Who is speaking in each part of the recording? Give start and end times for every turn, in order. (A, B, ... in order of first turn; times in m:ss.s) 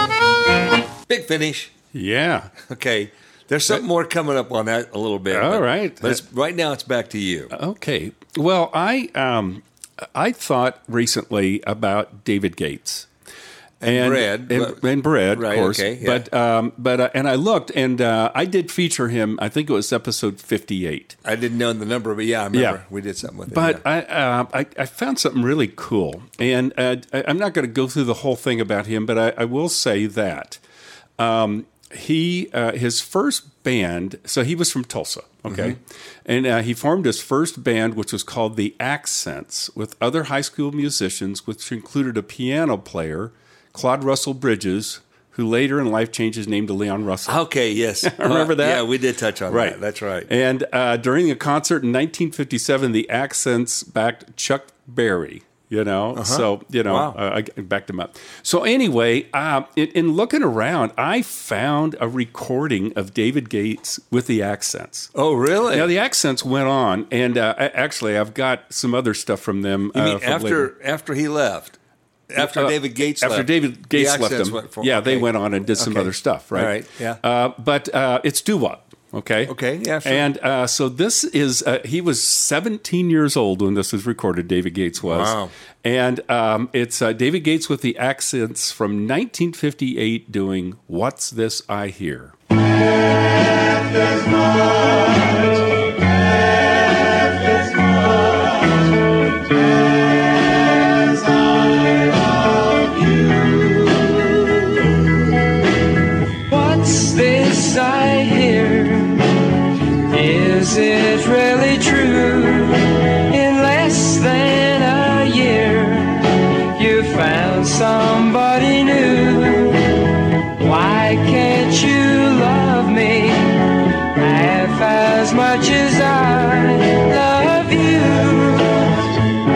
0:01.1-0:01.8 A
0:01.9-0:02.5 B
0:02.6-0:07.5 A
0:05.3-0:06.2 B
0:07.5-0:09.6 B
0:10.2-0:13.1 B
0:13.8-0:16.3 A
0:13.9-0:21.2 B
0:21.2-0:23.8 A
0:22.5-0:22.8 B
0:23.5-0:30.6 B
0:31.2-0:47.4 B
0:35.5-0:35.8 A
0:47.3-0:50.3 A
0:48.0-0:48.9 B
0:49.5-1:05.1 B
0:56.2-0:57.2 A
1:05.2-1:05.9 A
1:05.7-1:10.7 B
1:09.9-1:11.8 A
1:12.4-1:32.3 B
1:12.4-1:17.2 A
1:19.5-1:20.3 A
1:25.0-1:25.5 A
1:42.8-1:44.7 C
1:46.5-1:49.3 C
1:50.1-1:59.8 C
2:00.6-2:09.0 C